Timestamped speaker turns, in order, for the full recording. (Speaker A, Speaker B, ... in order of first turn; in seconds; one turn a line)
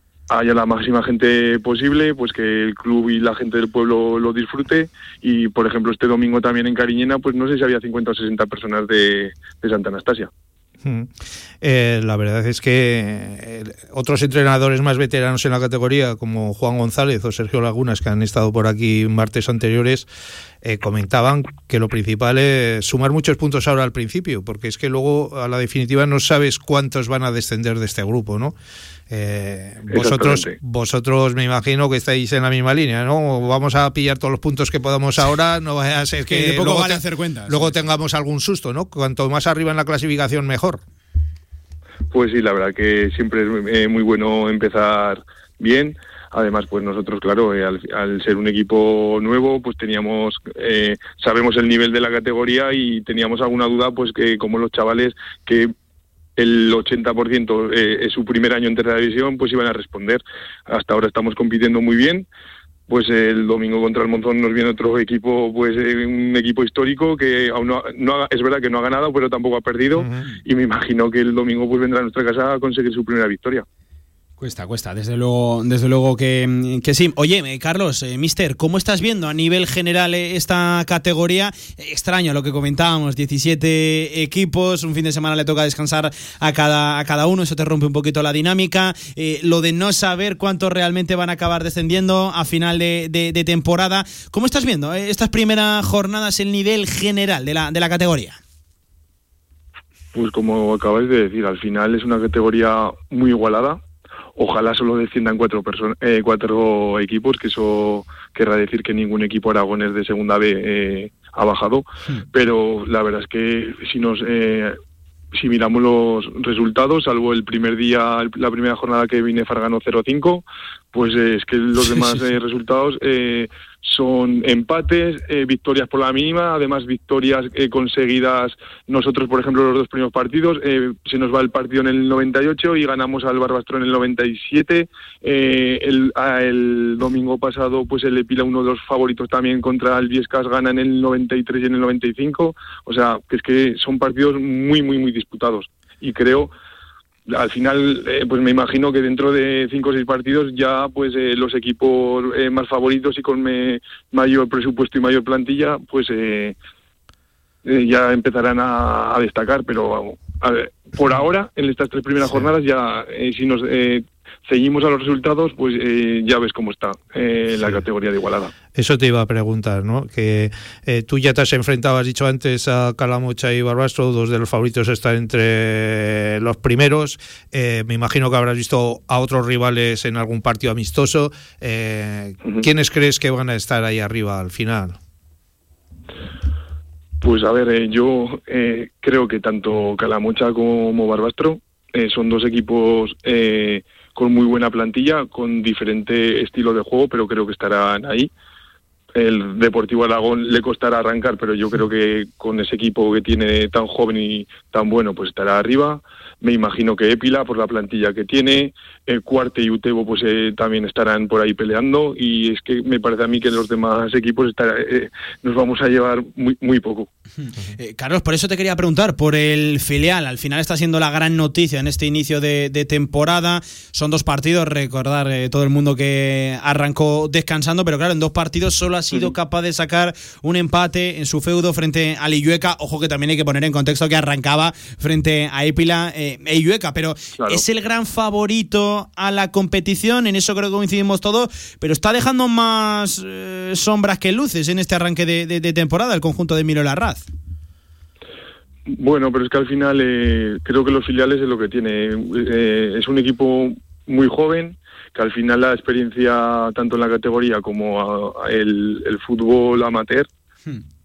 Speaker A: 0.3-10.3
Speaker B: 10.8-20.1
Speaker B: 20.6-28.5
Speaker B: 29.1-40.8
Speaker A: 29.9-30.6
Speaker C: 36.2-37.8
Speaker A: 42.1-55.7
Speaker A: 56.4-62.3
Speaker A: 62.9-73.7
Speaker B: 70.0-70.2
Speaker C: 74.4-98.4
Speaker A: 100.1-103.8
Speaker A: 104.4-114.8
Speaker A: 115.3-146.5
Speaker A: 147.3-156.6
Speaker A: 157.7-168.5
Speaker B: 168.8-185.0
Speaker A: 187.2-198.3
Speaker A: 199.2-217.1
Speaker C: 217.4-247.3
Speaker A: 237.4-237.6
Speaker A: 248.9-260.3